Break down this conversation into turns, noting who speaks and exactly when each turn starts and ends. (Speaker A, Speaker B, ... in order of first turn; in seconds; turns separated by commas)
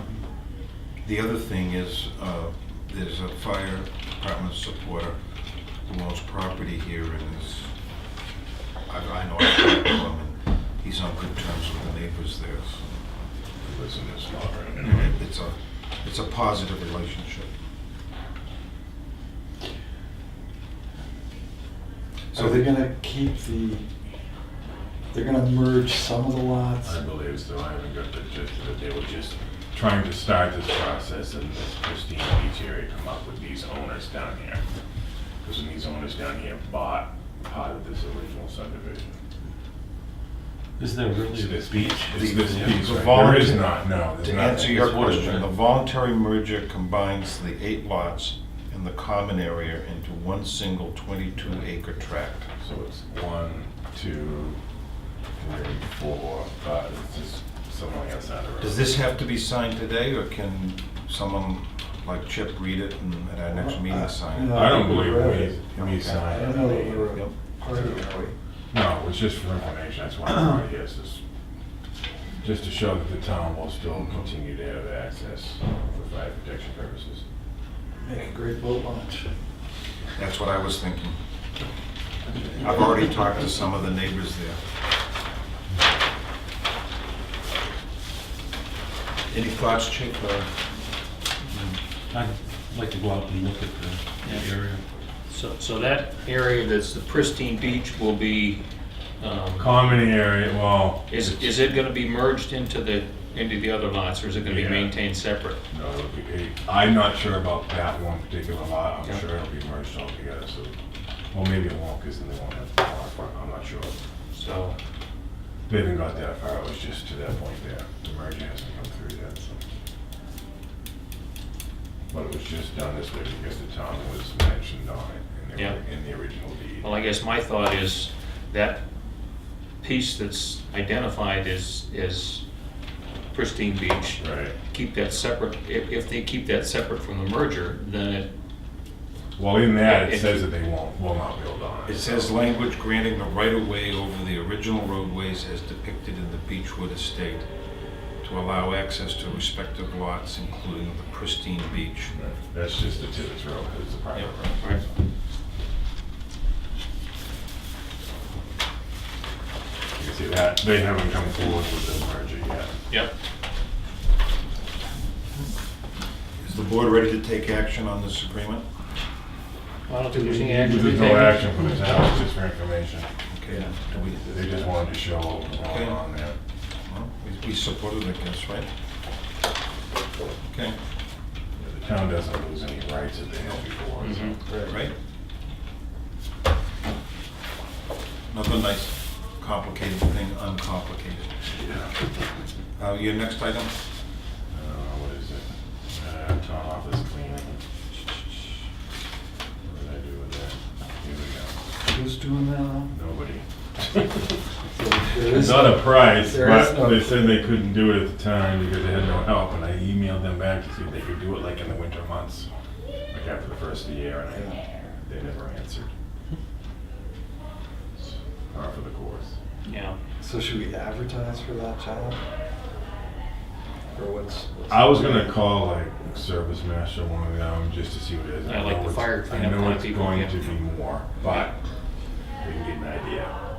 Speaker A: 1.0-5.2, Speaker A: 5.8-7.7, Speaker A: 8.9-12.8, Speaker B: 13.6-15.1, Speaker A: 14.9-17.5, Speaker A: 22.3-22.7, Speaker C: 22.4-23.9, Speaker C: 25.1-26.9, Speaker B: 26.9-34.6, Speaker B: 35.4-39.1, Speaker D: 40.8-42.9, Speaker B: 41.3-45.1, Speaker A: 42.1-52.5, Speaker D: 44.6-45.5, Speaker B: 52.6-54.6, Speaker B: 55.4-58.8, Speaker A: 58.6-64.7, Speaker C: 63.6-65.4, Speaker B: 64.5-67.1, Speaker A: 65.7-66.3, Speaker C: 66.3-68.3, Speaker A: 67.1-68.2, Speaker B: 68.7-71.2, Speaker B: 72.4-77.2, Speaker C: 78.0-79.3, Speaker A: 80.2-81.2, Speaker A: 82.6-84.6, Speaker A: 89.3-90.5, Speaker D: 91.6-94.8, Speaker E: 94.2-94.5, Speaker E: 95.3-98.6, Speaker E: 99.2-99.9, Speaker B: 99.6-101.6, Speaker E: 101.1-105.6, Speaker B: 104.4-105.0, Speaker B: 105.7-110.8, Speaker B: 111.3-114.0, Speaker E: 114.3-114.8, Speaker B: 115.7-119.6, Speaker B: 122.1-126.9, Speaker E: 126.8-128.8, Speaker E: 129.8-132.4, Speaker E: 133.3-138.3, Speaker B: 134.2-134.6, Speaker B: 139.4-142.3, Speaker E: 139.8-140.5, Speaker A: 141.9-147.4, Speaker A: 148.2-152.2, Speaker B: 152.2-155.0, Speaker B: 160.0-162.8, Speaker A: 166.4-168.7, Speaker E: 169.9-171.4, Speaker B: 170.2-173.1, Speaker A: 173.3-174.4, Speaker B: 174.3-176.4, Speaker A: 175.6-176.0, Speaker A: 176.9-178.7, Speaker A: 180.5-180.8, Speaker B: 181.6-184.4, Speaker E: 184.0-184.4, Speaker A: 184.7-184.9, Speaker A: 188.3-191.3, Speaker B: 191.5-191.9, Speaker A: 192.8-193.7, Speaker B: 194.5-197.6, Speaker B: 199.6-201.5, Speaker C: 201.9-202.9, Speaker B: 202.9-204.3, Speaker C: 204.7-207.0, Speaker B: 205.3-212.5, Speaker B: 213.1-215.9, Speaker B: 218.0-219.4, Speaker E: 219.7-220.0, Speaker C: 220.2-222.2, Speaker C: 223.9-225.3, Speaker B: 224.7-231.6, Speaker E: 228.5-230.6, Speaker B: 232.4-233.3